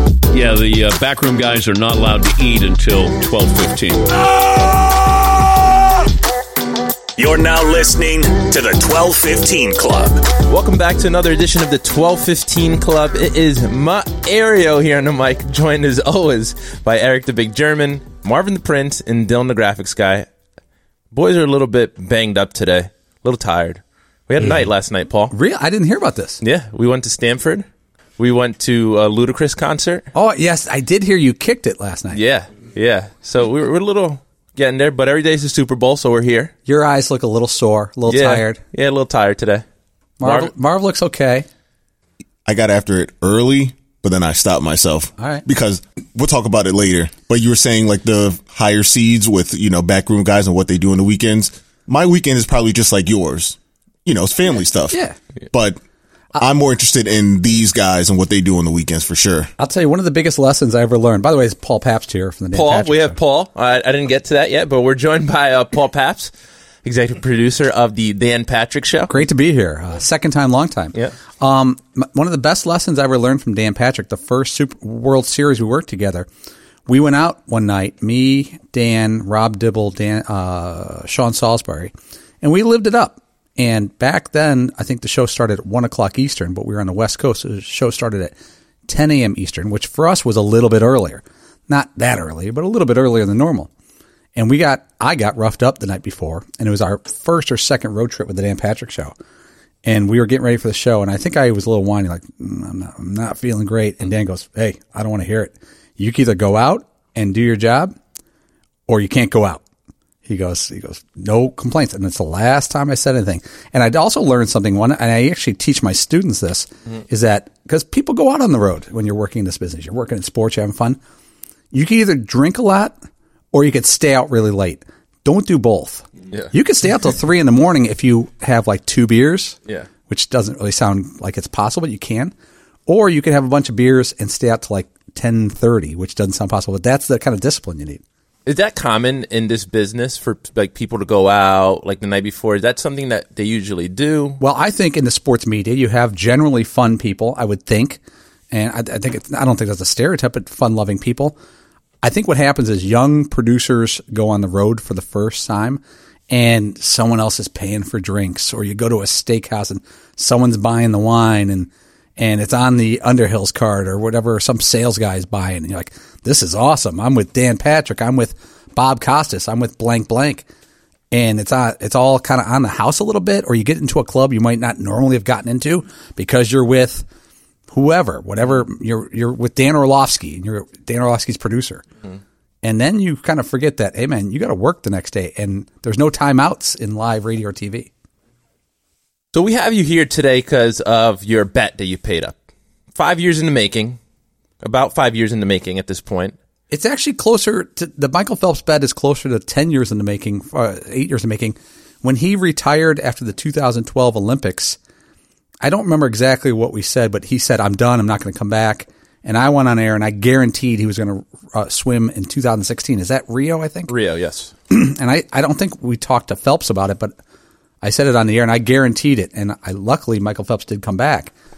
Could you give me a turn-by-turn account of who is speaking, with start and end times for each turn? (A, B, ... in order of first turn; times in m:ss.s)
0:00.3-0:04.1 A
0:04.2-0:05.5 B
0:07.2-0:10.3 B
0:10.4-0:20.3 C
0:21.1-0:25.3 C
0:25.3-0:26.4 D
0:26.4-0:27.6 C
0:28.2-0:30.1 C
0:30.1-0:32.2 D
0:32.1-0:36.5 C
0:36.7-0:38.6 D
0:38.1-0:39.6 C
0:40.2-0:41.4 D
0:40.2-0:40.5 C
0:42.4-0:55.0 E
0:45.2-0:45.4 D
0:54.9-0:55.2 D
0:55.5-0:55.8 E
0:56.4-0:59.5 E
0:59.6-1:03.2 D
1:02.5-1:06.3 C
1:06.8-1:09.1 C
1:09.1-1:16.3 D
1:16.9-1:28.3 D
1:28.9-1:33.7 D
1:34.4-1:39.1 D
1:39.8-1:47.9 D
1:48.9-1:49.6 D
1:50.2-2:01.0 D
2:01.7-2:02.9 D
2:03.5-2:09.6 D
2:10.1-2:12.3 D
2:12.8-2:18.0 D
2:18.4-2:24.4 C
2:24.4-2:28.0 D
2:28.5-2:31.3 D
2:32.0-2:50.4 D
2:51.1-2:57.0 D
2:57.7-3:01.8 D
3:02.6-3:07.9 D
3:09.3-3:12.3 C
3:13.0-3:14.0 C
3:14.6-3:16.4 C
3:16.7-3:24.8 D
3:25.6-3:33.9 D
3:33.9-3:34.5 C
3:34.7-3:37.1 D
3:37.8-3:41.3 D